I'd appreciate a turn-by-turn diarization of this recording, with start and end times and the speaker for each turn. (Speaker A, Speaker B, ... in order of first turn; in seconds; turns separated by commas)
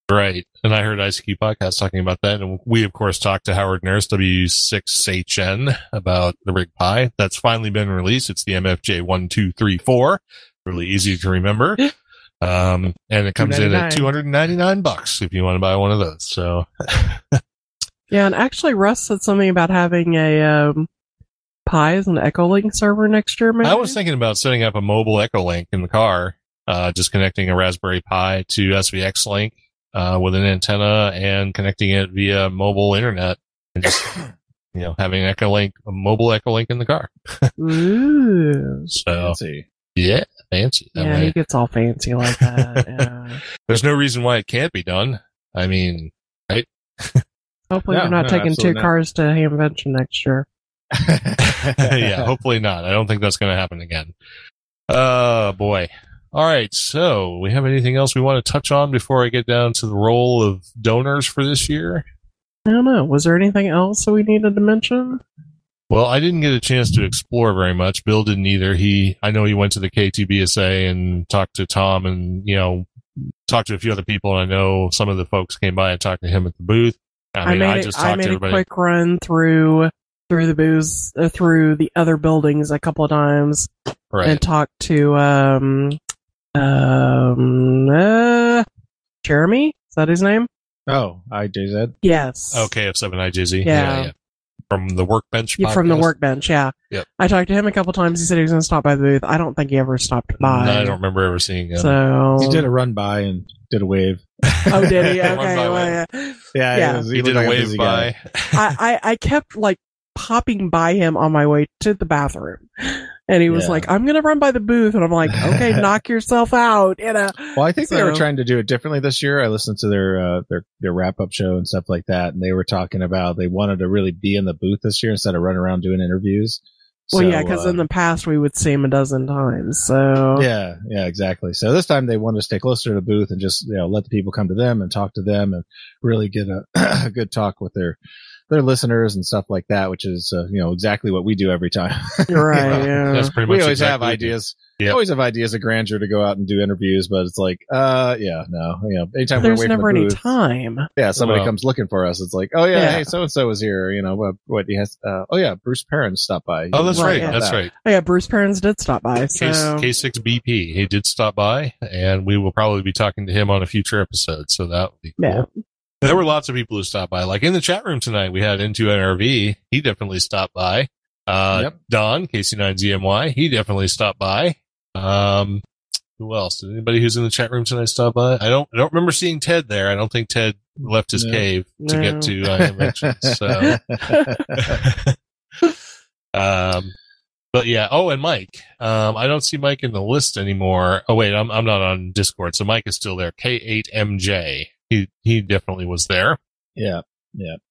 Speaker A: 0.1-17.4, Speaker B: 13.4-14.1, Speaker C: 18.1-20.9, Speaker C: 21.6-24.0, Speaker A: 23.6-34.2, Speaker A: 34.7-37.5, Speaker C: 37.6-38.9, Speaker A: 38.9-39.4, Speaker B: 39.1-39.6, Speaker A: 40.0-41.3, Speaker C: 41.0-43.4, Speaker A: 43.7-47.2, Speaker C: 47.7-50.5, Speaker B: 47.9-48.9, Speaker B: 50.9-52.3, Speaker A: 51.4-54.1, Speaker A: 54.9-62.0, Speaker C: 62.6-65.2, Speaker A: 65.9-72.8, Speaker A: 73.5-78.6, Speaker C: 77.4-83.7, Speaker A: 84.1-84.4, Speaker C: 84.2-86.0, Speaker C: 86.5-88.7, Speaker C: 89.2-90.5, Speaker B: 90.9-91.9, Speaker C: 92.0-92.7, Speaker A: 92.5-94.1, Speaker C: 93.6-94.1, Speaker A: 94.7-96.1, Speaker C: 95.6-101.0, Speaker A: 100.4-102.6, Speaker C: 101.8-102.6, Speaker B: 102.4-105.3, Speaker C: 104.7-107.0, Speaker A: 105.0-106.0, Speaker B: 106.5-108.1, Speaker A: 107.1-108.7, Speaker C: 108.5-118.2, Speaker B: 113.5-113.8, Speaker B: 117.5-126.6, Speaker B: 127.1-127.8, Speaker C: 127.1-130.5, Speaker B: 130.3-138.0, Speaker B: 138.5-150.2, Speaker C: 142.3-143.3, Speaker A: 142.6-145.0, Speaker C: 149.4-150.9, Speaker B: 151.0-157.6, Speaker A: 151.2-151.5, Speaker C: 152.7-153.1, Speaker A: 156.7-157.7, Speaker C: 156.9-159.9, Speaker A: 159.4-165.4, Speaker C: 165.2-165.5, Speaker A: 166.0-175.6, Speaker A: 176.2-183.8, Speaker B: 181.1-181.4, Speaker C: 181.8-182.3, Speaker B: 182.4-184.8, Speaker C: 184.0-184.4, Speaker A: 184.6-185.2, Speaker A: 186.3-186.9, Speaker A: 187.5-196.4, Speaker B: 196.8-197.6